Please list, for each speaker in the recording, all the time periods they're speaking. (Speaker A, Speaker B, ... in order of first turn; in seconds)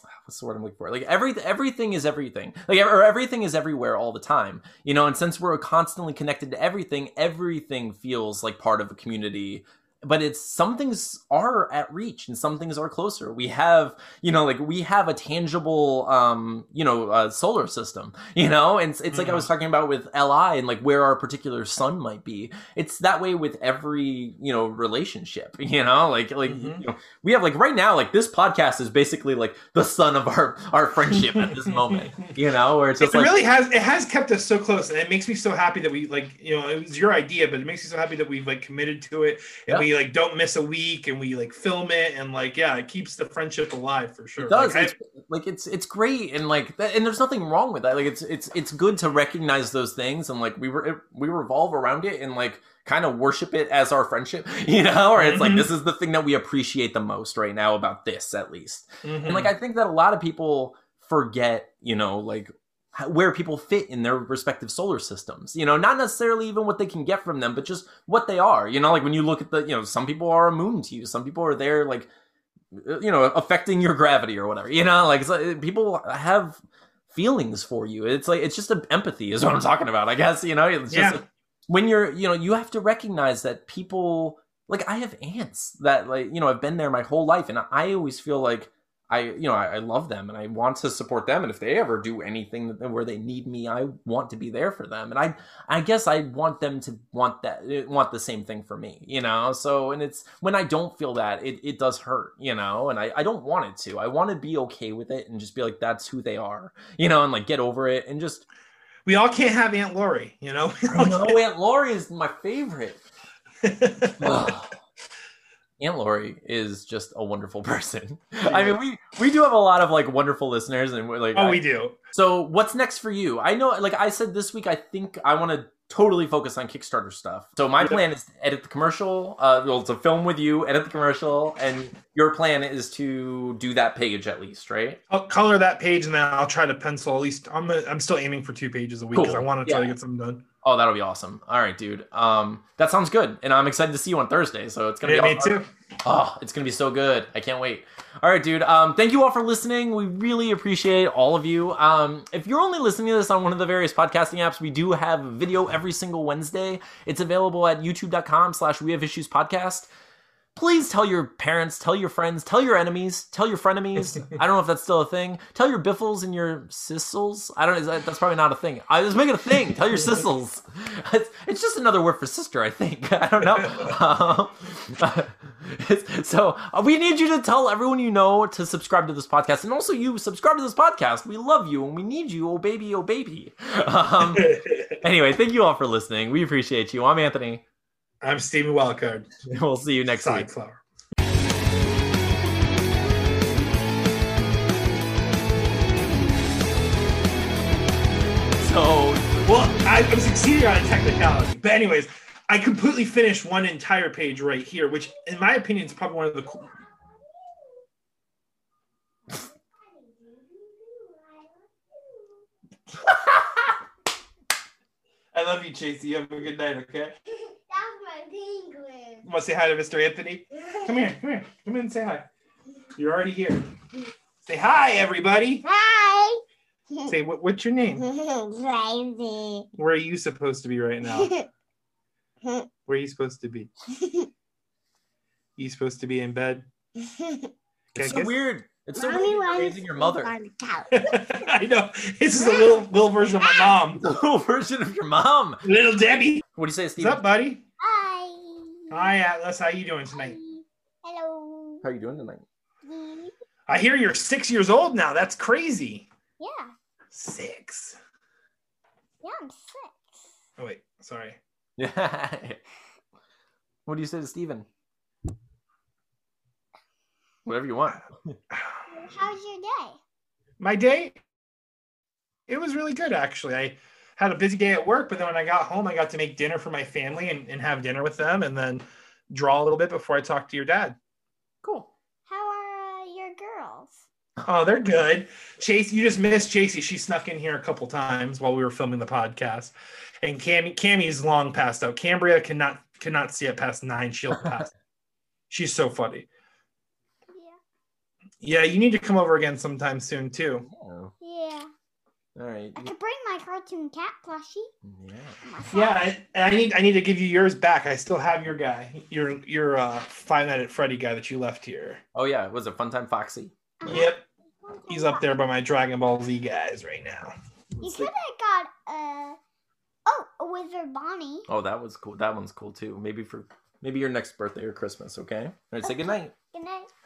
Speaker A: 0.2-33.3, 44.4-72.1, 72.7-108.5, 110.9-113.0, 114.2-114.8, 115.8-121.6, 122.1-135.0, 139.1-139.9, 140.6-159.9, 160.6-187.6, 189.5-190.5, 198.6-199.6, 237.9-240.3, 244.0-245.6, 246.6-247.2, 251.8-252.4, 261.8-262.6, 263.9-264.7, 267.5-268.4, 281.6-281.9, 300.7-301.1, 302.4-302.9, 304.9-305.4, 312.1-313.5, 317.7-318.1, 321.5-326.3
Speaker B: 19.1-19.5, 26.5-26.8, 31.1-32.1, 33.0-44.9, 55.2-55.7, 59.0-59.5, 80.9-81.2, 109.1-111.4, 113.6-114.5, 118.5-118.8, 121.3-122.0, 135.1-140.4, 145.0-145.7, 173.5-173.9, 184.3-184.9, 188.2-189.3, 190.2-190.8, 199.4-206.7, 215.3-217.1, 219.2-222.3, 223.0-223.7, 224.4-225.7, 227.1-228.0, 229.8-231.3, 232.9-233.7, 235.6-236.7, 237.9-238.3, 240.9-244.0, 245.6-246.4, 247.0-247.7, 248.9-250.4, 253.7-256.1, 257.1-258.0, 260.6-261.4, 268.5-268.8, 270.6-271.2, 272.5-281.0, 284.4-294.7, 295.5-296.3, 298.4-300.7, 305.7-312.0, 313.9-314.2, 314.9-317.3
Speaker C: 206.7-207.8, 209.3-212.4, 217.7-219.3, 225.7-226.4, 227.9-229.7, 231.1-231.5, 232.4-232.7, 233.9-234.3, 237.0-237.5, 239.0-241.1, 242.4-243.8, 247.8-249.2, 250.1-251.8, 252.8-253.3, 256.4-256.7, 259.2-260.2, 268.9-270.0, 282.3-284.0, 297.3-297.6, 301.2-301.7, 302.8-304.7, 305.4-306.1, 313.8-315.2, 317.8-319.4, 320.1-321.5, 325.8-326.9